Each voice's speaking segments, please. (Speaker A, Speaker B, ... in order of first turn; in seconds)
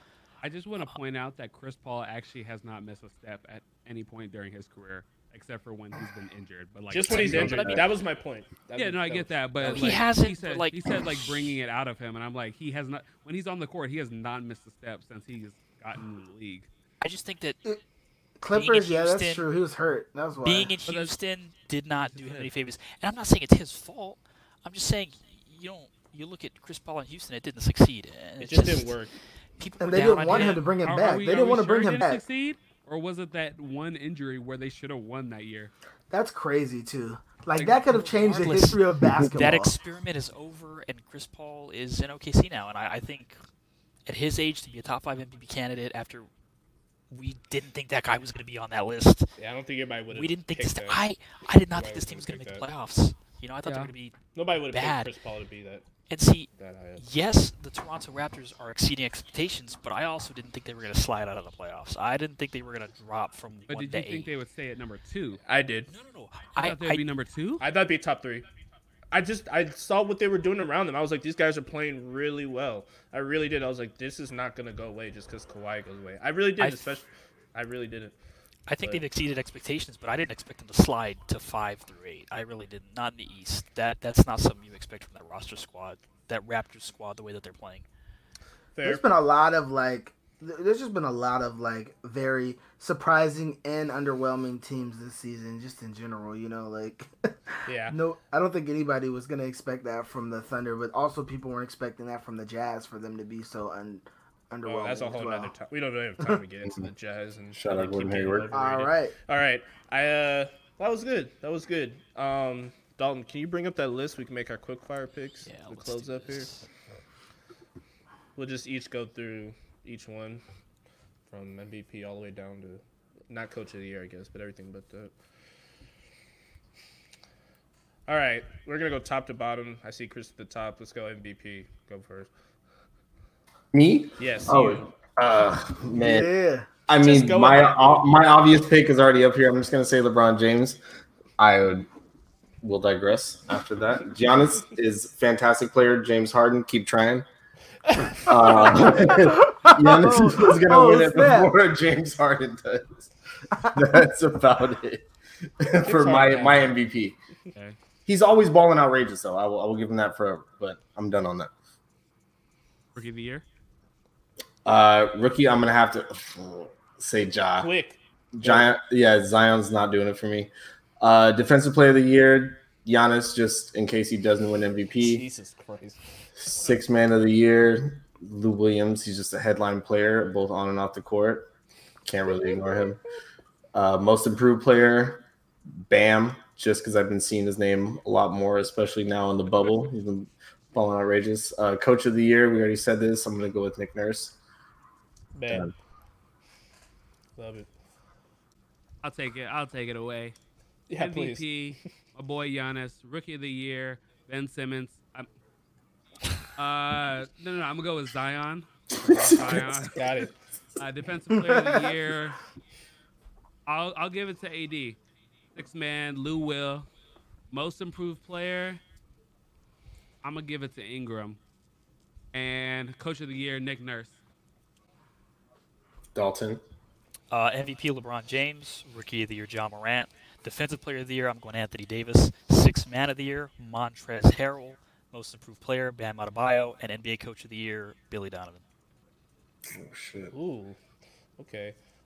Speaker A: 0.4-7.8, 8.7-16.7, 20.8-21.1, 21.9-22.5, 30.2-35.7, 37.5-38.5, 53.6-53.9, 63.7-65.4, 66.6-67.6, 162.9-163.4, 199.0-200.3, 200.9-205.3, 206.6-210.1, 210.8-212.4, 213.7-215.0, 215.5-216.9, 217.5-218.8, 220.2-221.4, 222.3-224.2
Speaker B: 6.9-10.0, 28.4-29.1, 49.4-51.0, 51.7-52.7, 54.3-55.8, 56.5-57.0, 65.4-65.9, 67.6-68.5, 69.1-78.1, 88.8-89.0, 97.7-98.0, 104.6-116.6, 118.3-120.4, 121.3-125.1, 128.1-132.3, 134.2-134.9, 137.0-138.2, 147.8-149.2, 155.8-156.7, 167.6-168.7, 175.0-176.0, 176.5-176.8, 182.4-182.8, 195.3-195.7, 197.4-197.7, 200.9-201.6, 209.9-210.3, 240.3-240.8, 241.4-241.8
Speaker C: 7.0-7.8, 9.6-11.2, 17.0-17.6, 18.5-19.4, 20.4-29.0, 29.6-30.6, 38.3-43.4, 44.0-46.3, 47.1-49.3, 50.1-54.2, 54.7-55.1, 56.1-64.3, 65.8-67.0, 76.6-76.9, 78.7-87.8, 115.4-116.7, 227.3-238.6
Speaker D: 7.2-7.8, 107.5-108.5, 133.7-136.3, 136.9-140.8, 141.4-141.8, 142.6-147.2, 148.2-153.1, 153.6-155.0, 155.6-157.2, 158.1-161.5, 164.6-167.7, 168.3-175.2, 176.4-181.5, 182.1-183.0, 183.7-185.2, 185.9-194.4, 195.5-195.7, 226.1-226.6, 239.7-240.3
Speaker E: 18.4-20.7, 29.8-32.2, 36.1-39.7, 88.8-97.1, 97.8-105.5, 108.5-109.1, 135.9-136.7, 148.7-151.5, 211.4-211.7